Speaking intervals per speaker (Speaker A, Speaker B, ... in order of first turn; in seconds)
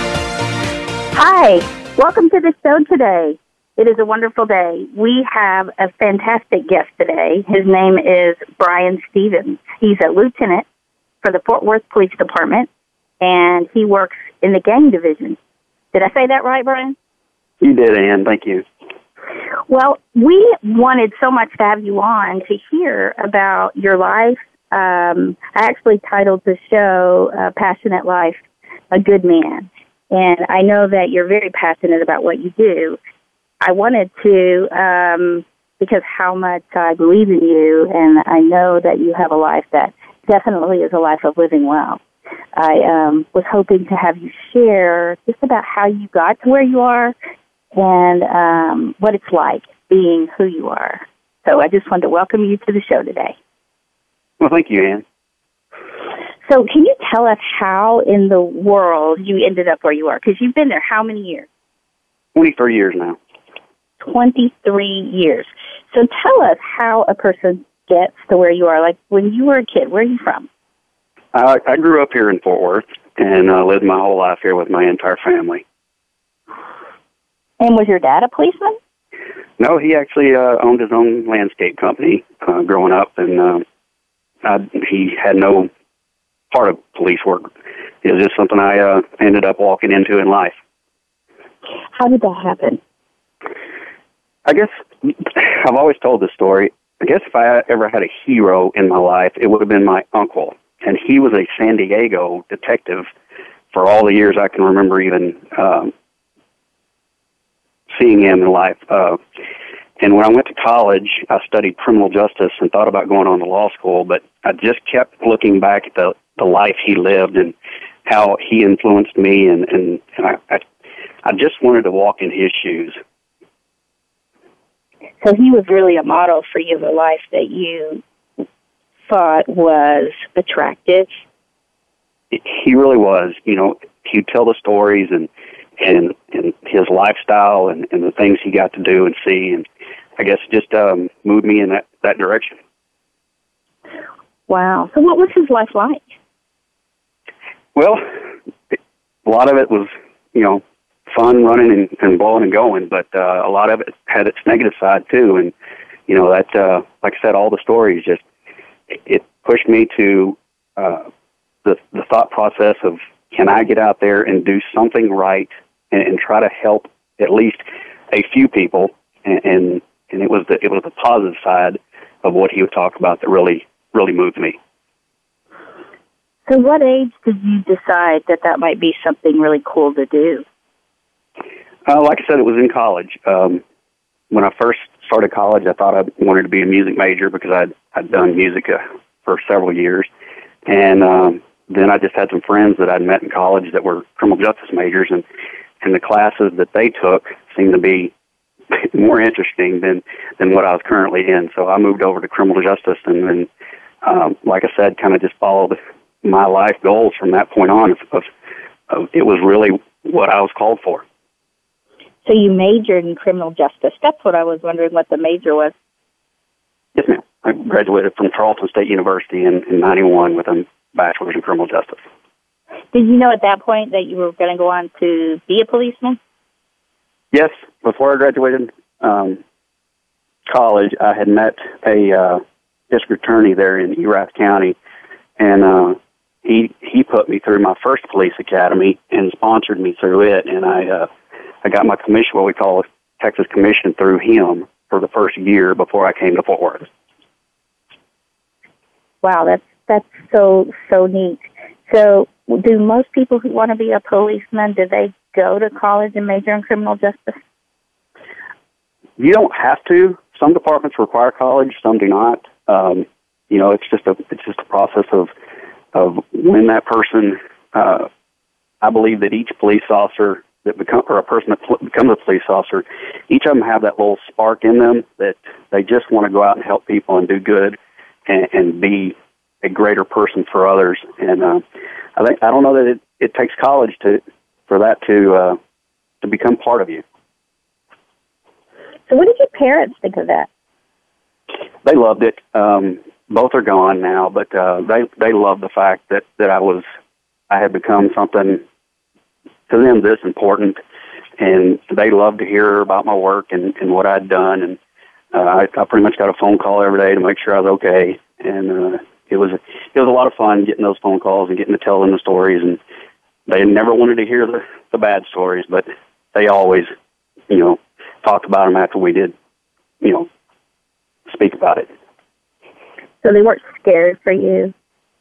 Speaker A: 1.1-10.6, 11.2-12.7, 13.2-15.4, 15.9-16.9, 19.7-33.0, 33.6-42.0, 42.5-47.1, 47.7-53.4, 56.5-61.5, 64.0-70.5, 77.6-78.8, 91.9-92.8, 125.2-128.0, 129.1-131.1, 144.5-146.0, 176.5-180.4, 212.2-215.7, 222.9-226.2, 249.2-257.4, 289.1-290.5, 323.2-324.7
Speaker B: 17.6-18.6, 54.4-55.0, 62.3-63.2, 71.3-75.6, 79.6-83.6, 84.4-85.7, 86.5-87.5, 88.0-90.5, 94.5-103.1, 103.7-105.9, 107.9-109.2, 110.0-117.5, 118.0-120.6, 121.2-123.0, 132.3-139.7, 140.2-142.6, 147.7-148.0, 148.7-155.5, 156.1-158.2, 158.9-161.1, 161.6-174.6, 181.9-183.6, 184.3-190.1, 190.7-195.2, 195.8-198.1, 198.7-203.5, 204.0-208.2, 208.9-211.0, 216.9-222.0, 227.3-229.4, 230.5-234.8, 235.4-241.1, 241.6-246.8, 259.2-265.3, 265.9-268.1, 268.8-281.6, 282.1-285.6, 286.2-287.0, 291.8-296.8, 297.5-298.6, 299.7-300.8, 301.4-304.8, 305.3-312.8, 313.5-316.9, 317.5-319.3, 320.0-320.3, 321.3-321.9